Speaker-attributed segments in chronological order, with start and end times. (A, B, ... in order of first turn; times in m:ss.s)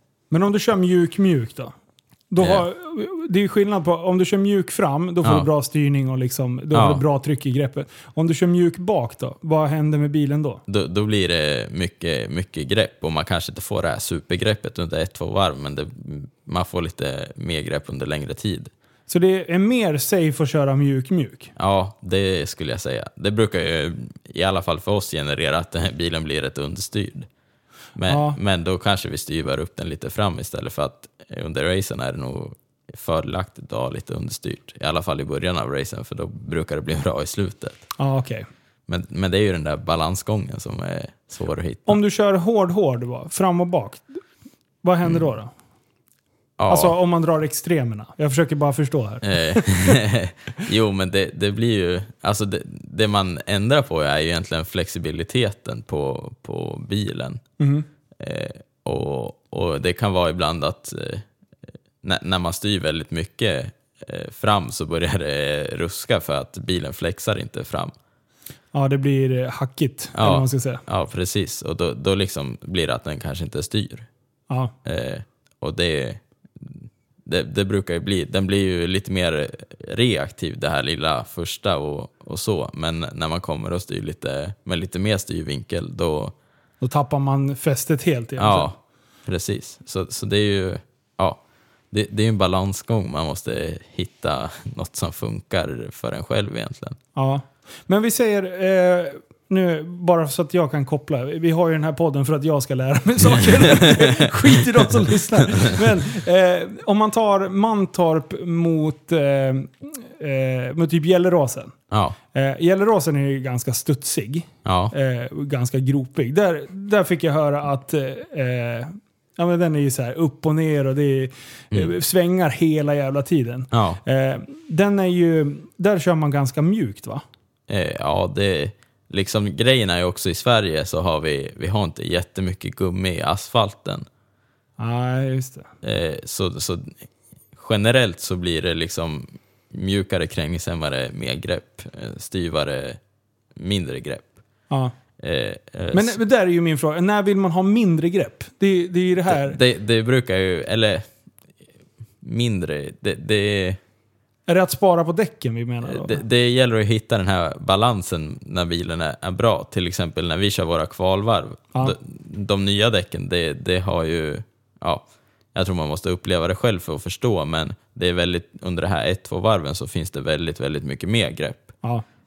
0:00.3-0:01.7 A
0:02.3-0:10.6 A
0:06.7-0:07.0 B
0:10.7-0:18.7 B
0:19.1-0:21.5 A
0:21.6-0:27.3 B
0:28.0-0:37.8 B
0:28.1-0:28.4 A
0:38.0-0:38.5 A
0:38.9-0:42.0 B
0:41.9-0:44.0 A
0:44.8-0:45.5 A
0:46.6-0:47.0 B
0:46.7-0:49.9 A
0:49.2-0:57.4 B
0:57.6-0:57.9 A
0:58.2-1:01.2 B
1:02.0-1:07.9 B
1:08.7-1:10.8 A
1:10.2-1:14.1 B
1:14.8-1:26.3 B
1:26.8-1:28.7 A
1:28.4-1:31.4 B
1:31.9-1:37.0 B
1:37.2-1:51.7 A
1:43.6-1:44.6 B
1:45.4-1:45.8 B
1:51.9-1:52.2 B
1:52.3-2:07.2 A
1:54.6-1:54.9 B
2:03.7-2:04.0 B
2:07.7-2:14.1 B
2:14.8-2:15.7 A
2:15.8-2:17.0 B
2:17.6-2:23.0 B
2:23.6-2:24.3 B
2:25.2-2:26.2 B
2:25.9-2:29.6 A
2:29.3-2:31.0 B
2:32.2-2:33.8 B
2:34.5-2:36.2 A
2:35.8-2:51.7 B